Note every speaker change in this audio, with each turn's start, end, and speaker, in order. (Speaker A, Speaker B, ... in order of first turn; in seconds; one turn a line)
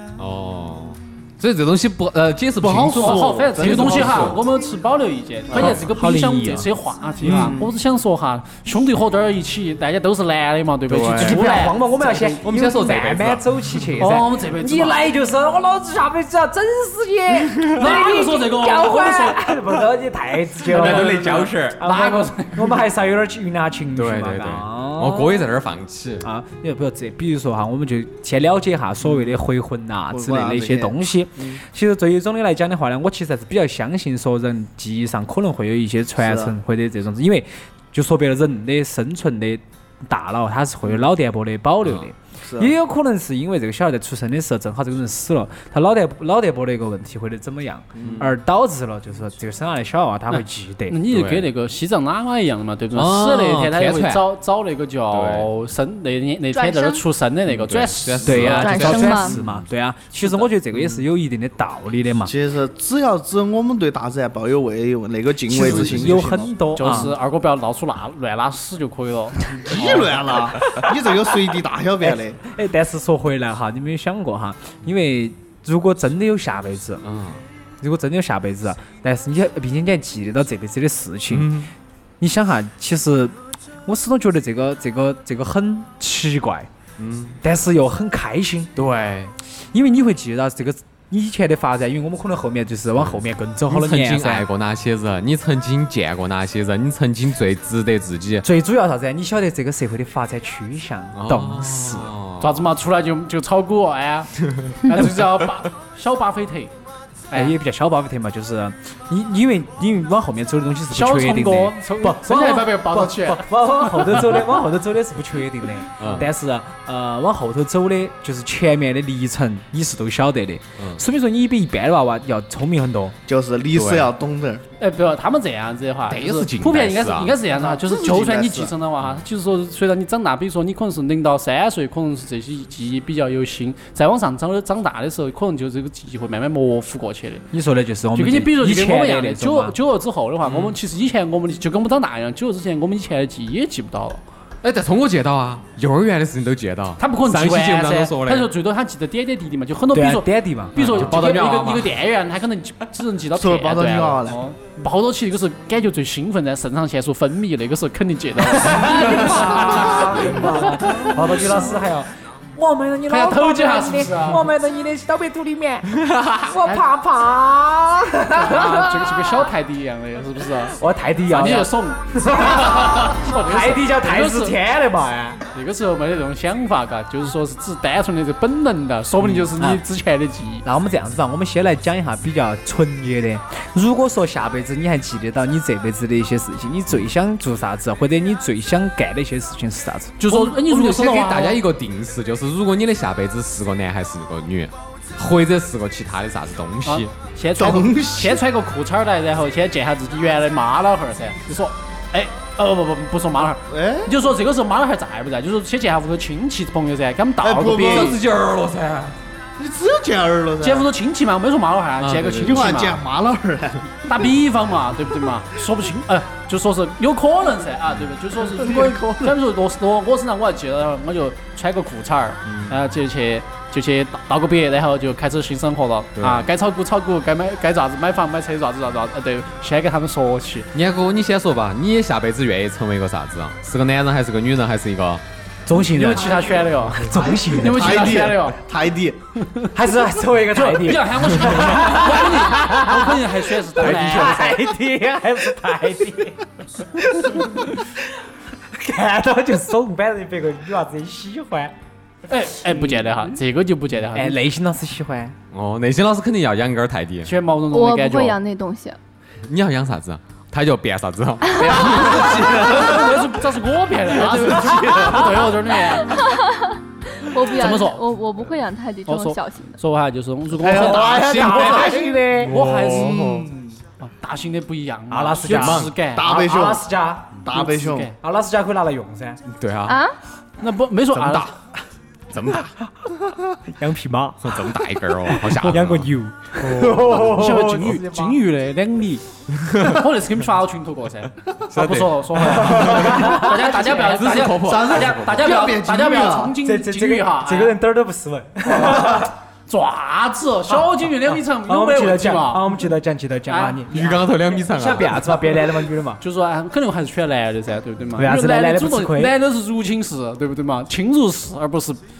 Speaker A: 0.2-4.4
Speaker B: 2.6-4.4
Speaker C: 3.0-12.4
Speaker B: 5.5-5.8
Speaker D: 5.5-6.7
Speaker D: 7.2-7.5
Speaker B: 7.2-7.7
Speaker A: 10.9-11.4
Speaker D: 11.1-25.5
Speaker A: 12.4-14.0
Speaker C: 14.0-15.0
Speaker A: 17.4-17.8
Speaker C: 17.7-19.5
Speaker A: 20.6-21.9
Speaker C: 20.7-22.8
Speaker A: 23.9-26.3
Speaker D: 26.2-51.0
Speaker B: 30.1-30.9
Speaker B: 36.2-36.5
Speaker B: 42.4-42.7
Speaker B: 48.0-48.3
Speaker A: 48.0-48.3
Speaker C: 50.9-58.5
Speaker A: 51.1-51.5
Speaker A: 52.9-54.2
Speaker A: 55.1-55.5
Speaker E: 56.5-57.0
Speaker A: 57.5-59.6
Speaker D: 58.2-62.3
Speaker E: 58.5-59.4
Speaker A: 60.7-61.0
Speaker B: 62.2-66.5
Speaker D: 65.5-67.1
Speaker A: 65.5-66.2
Speaker C: 66.7-70.3
Speaker B: 69.6-72.4
Speaker D: 70.7-70.9
Speaker D: 72.0-77.0
Speaker A: 77.0-77.4
Speaker D: 77.8-81.6
Speaker A: 81.3-81.7
Speaker D: 82.2-83.3
Speaker D: 83.8-86.7
Speaker A: 87.0-87.4
Speaker D: 87.4-88.7
Speaker A: 88.8-89.3
Speaker D: 89.7-94.5
Speaker A: 92.9-98.5
Speaker D: 98.4-102.1
Speaker A: 101.1-102.7
Speaker C: 102.4-104.3
Speaker A: 104.5-105.5
Speaker C: 104.8-106.7
Speaker C: 107.3-107.5
Speaker D: 107.3-123.2
Speaker C: 110.9-114.3
Speaker A: 116.0-116.3
Speaker A: 120.8-121.0
Speaker B: 123.3-124.6
Speaker A: 123.7-124.1
Speaker C: 124.8-137.4
Speaker A: 126.1-127.4
Speaker B: 127.5-128.7
Speaker D: 137.5-139.7
Speaker C: 138.1-144.2
Speaker A: 140.4-140.8
Speaker A: 144.6-148.5
Speaker C: 147.0-161.7
Speaker D: 149.9-151.2
Speaker A: 150.8-151.9
Speaker B: 153.3-154.4
Speaker D: 158.5-169.5
Speaker C: 163.1-164.5
Speaker A: 165.9-166.5
Speaker C: 168.3-170.8
Speaker D: 170.7-175.4
Speaker C: 171.3-174.6
Speaker C: 175.5-180.6
Speaker A: 179.2-179.5
Speaker D: 180.6-190.2
Speaker C: 190.2-191.6
Speaker A: 190.3-197.1
Speaker C: 196.8-208.2
Speaker B: 197.6-198.4
Speaker B: 203.7-204.1
Speaker B: 207.4-208.2
Speaker A: 207.7-209.2
Speaker B: 209.6-210.9
Speaker C: 210.6-213.0
Speaker A: 212.0-212.8
Speaker B: 212.4-213.8
Speaker C: 214.0-230.7
Speaker B: 218.4-219.3
Speaker A: 222.4-222.8
Speaker A: 226.2-226.5
Speaker A: 230.7-235.2
Speaker D: 235.7-236.4
Speaker C: 235.7-238.6
Speaker D: 236.9-238.3
Speaker B: 237.5-239.2
Speaker C: 239.4-239.7
Speaker D: 239.7-248.1
Speaker C: 240.5-244.6
Speaker D: 248.7-251.7
Speaker C: 252.3-254.4
Speaker D: 254.1-255.3
Speaker A: 255.5-257.3
Speaker C: 257.2-258.4
Speaker E: 257.7-259.0
Speaker A: 259.4-262.7
Speaker C: 261.7-266.2
Speaker B: 261.8-263.2
Speaker B: 264.1-265.4
Speaker E: 266.1-269.8
Speaker C: 267.5-268.0
Speaker C: 269.1-273.4
Speaker B: 270.5-272.1
Speaker A: 270.8-273.5
Speaker D: 271.2-272.6
Speaker B: 272.9-273.8
Speaker C: 274.0-276.3
Speaker D: 275.1-277.4
Speaker A: 275.4-275.9
Speaker B: 276.1-276.9
Speaker B: 277.4-278.1
Speaker C: 277.5-278.1
Speaker D: 278.2-279.4
Speaker A: 279.5-280.0
Speaker E: 279.9-280.1
Speaker C: 280.6-281.5
Speaker A: 281.1-281.5
Speaker A: 282.3-282.8
Speaker D: 283.6-284.8
Speaker A: 284.4-286.1
Speaker D: 285.3-288.4
Speaker C: 286.6-289.2
Speaker A: 289.5-290.0
Speaker C: 289.8-297.7
Speaker A: 291.7-295.6
Speaker D: 292.5-293.6
Speaker B: 294.4-296.6
Speaker D: 296.6-299.3
Speaker C: 298.8-302.8
Speaker D: 301.6-306.2
Speaker C: 303.5-304.2
Speaker A: 303.9-305.4
Speaker C: 306.2-312.0
Speaker D: 308.1-309.4